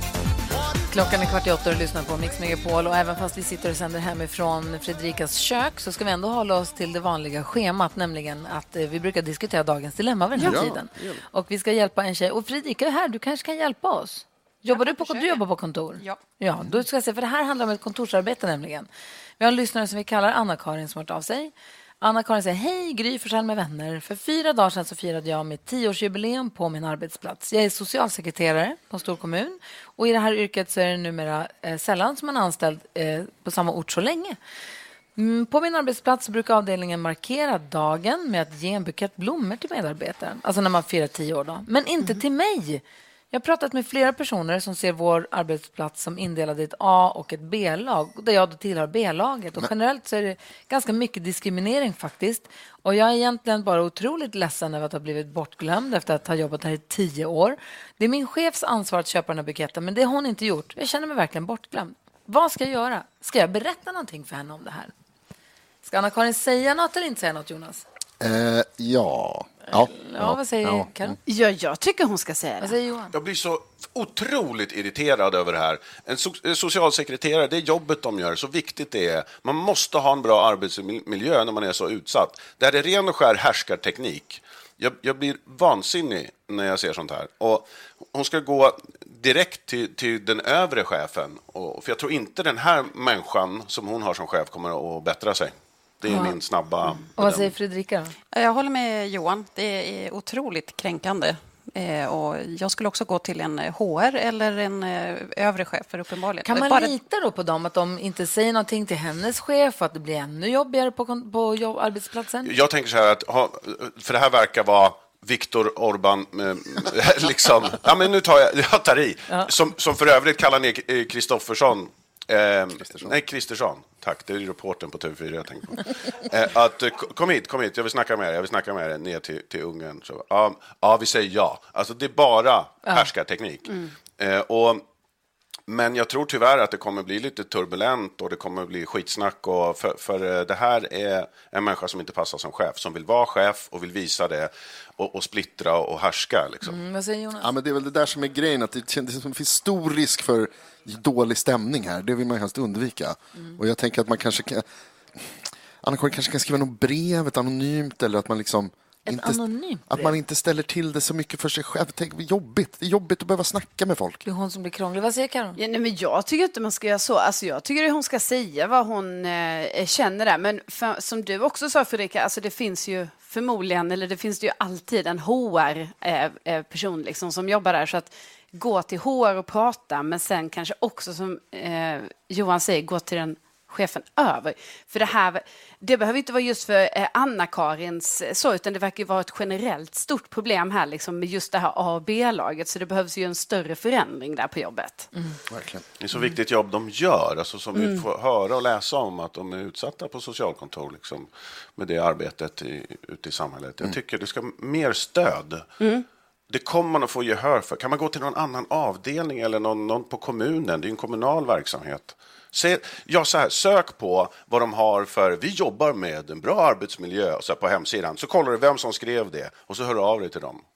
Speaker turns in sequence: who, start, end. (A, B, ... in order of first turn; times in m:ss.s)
0:00.9-0:18.9 A
0:10.4-0:10.6 B
0:10.4-0:11.2 C
0:14.7-0:15.4 D
0:19.4-0:34.4 A
0:35.2-1:04.9 A
1:05.8-1:07.8 A
1:08.2-1:11.2 C
1:09.7-1:11.2 A
1:11.3-1:12.8 B
1:12.6-1:13.2 A
1:13.1-1:37.5 E
1:36.1-1:36.4 A
1:37.2-1:38.1 A
1:38.3-1:46.9 D
1:46.4-1:52.5 A
1:52.4-2:14.8 E
2:02.8-2:03.2 C
2:15.7-2:26.8 E
2:26.6-2:27.5 A
2:27.4-2:44.2 C
2:39.1-2:40.2 A
2:44.2-2:45.6 A
2:45.6-3:15.1 B
3:15.5-3:15.8 C
3:16.0-3:25.7 E
3:17.7-3:18.0 B
3:25.8-3:26.1 B
3:26.5-3:40.6 E